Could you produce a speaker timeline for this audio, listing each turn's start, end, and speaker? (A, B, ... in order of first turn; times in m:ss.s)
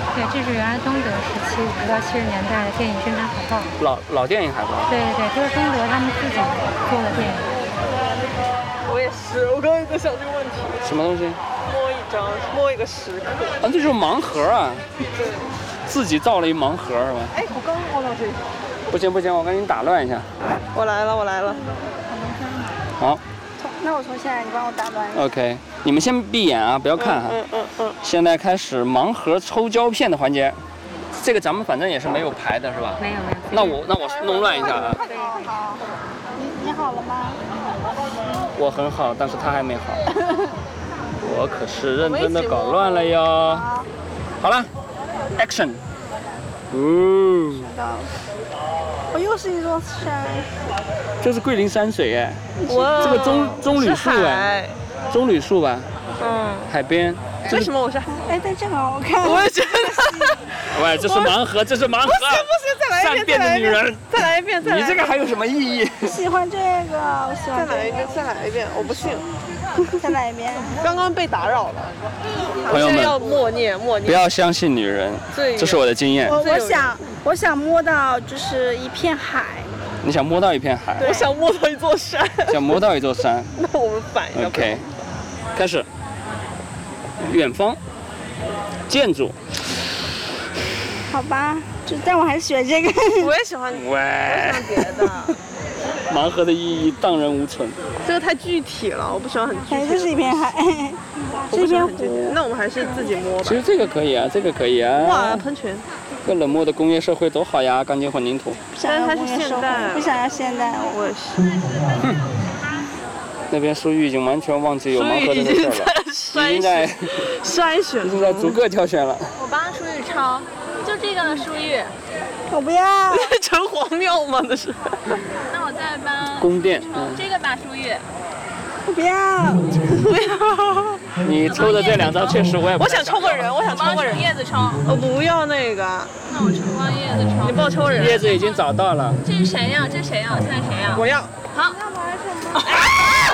0:00.1-0:03.7 A
0:03.8-0:04.9 B
0:04.9-0:07.5 A
0:08.8-0:10.8 C
0:10.8-0:11.4 B
0:11.6-0:13.6 C
0:13.6-0:14.8 B
0:15.1-0:15.4 C
0:15.9-0:17.3 B
0:17.3-0:18.4 C
0:18.9-0:20.3 B
0:20.7-0:21.6 C
0:23.6-0:25.3 D
0:25.1-0:27.4 B
0:27.0-0:28.0 C
0:28.0-0:30.6 B
0:31.1-0:35.0 B
0:34.2-0:35.8 D
0:36.3-0:37.4 D
0:38.5-0:40.0 B
0:41.2-0:43.6 B
0:43.4-0:43.9 D
0:44.4-0:44.7 B
0:45.4-0:45.8 B
0:46.7-0:47.7 B
0:47.5-0:48.1 D
0:49.1-0:50.5 D
0:51.2-0:54.5 B
0:52.6-0:53.2 D
0:52.7-0:54.8 C
0:55.1-0:55.9 B
0:56.2-0:56.7 C
0:56.7-0:57.7 B
0:57.4-0:58.2 C
0:58.1-1:00.4 D
0:59.2-1:00.3 C
1:00.7-1:04.0 B
1:01.0-1:01.3 C
1:02.1-1:05.1 C
1:04.6-1:06.2 B
1:06.0-1:09.2 D
1:07.5-1:09.3 C
1:10.0-1:10.8 D
1:10.8-1:14.2 C
1:12.7-1:13.2 B
1:14.0-1:16.4 B
1:15.3-1:16.9 C
1:16.2-1:19.7 D
1:20.0-1:21.3 B
1:21.0-1:22.8 C
1:22.5-1:23.5 B
1:23.6-1:24.8 C
1:24.3-1:24.8 B
1:25.5-1:25.9 B
1:27.2-1:27.8 B
1:28.9-1:29.4 B
1:31.1-1:33.3 D
1:33.2-1:35.3 C
1:33.7-1:35.3 B
1:36.1-1:37.8 B
1:38.0-1:40.3 C
1:39.6-1:42.4 D
1:41.5-1:43.6 C
1:43.4-1:45.4 B
1:45.0-1:45.8 C
1:46.2-1:48.6 B
1:48.7-1:51.1 D
1:48.8-1:50.1 C
1:50.8-1:51.5 C
1:53.5-1:57.2 B
1:54.9-1:58.6 C
1:58.0-1:59.3 B
1:59.4-2:01.9 E
2:02.5-2:03.3 D
2:03.1-2:05.0 C
2:05.5-2:08.0 E
2:06.4-2:07.2 B
2:08.9-2:10.1 D
2:09.9-2:11.0 C
2:11.2-2:13.4 B
2:11.4-2:12.5 E
2:12.8-2:14.3 C
2:13.3-2:14.8 E
2:14.8-2:16.1 C
2:16.3-2:18.5 E
2:17.4-2:18.1 C
2:18.0-2:19.2 B
2:19.2-2:21.8 E
2:20.9-2:21.3 C
2:22.0-2:22.4 D
2:22.5-2:22.8 E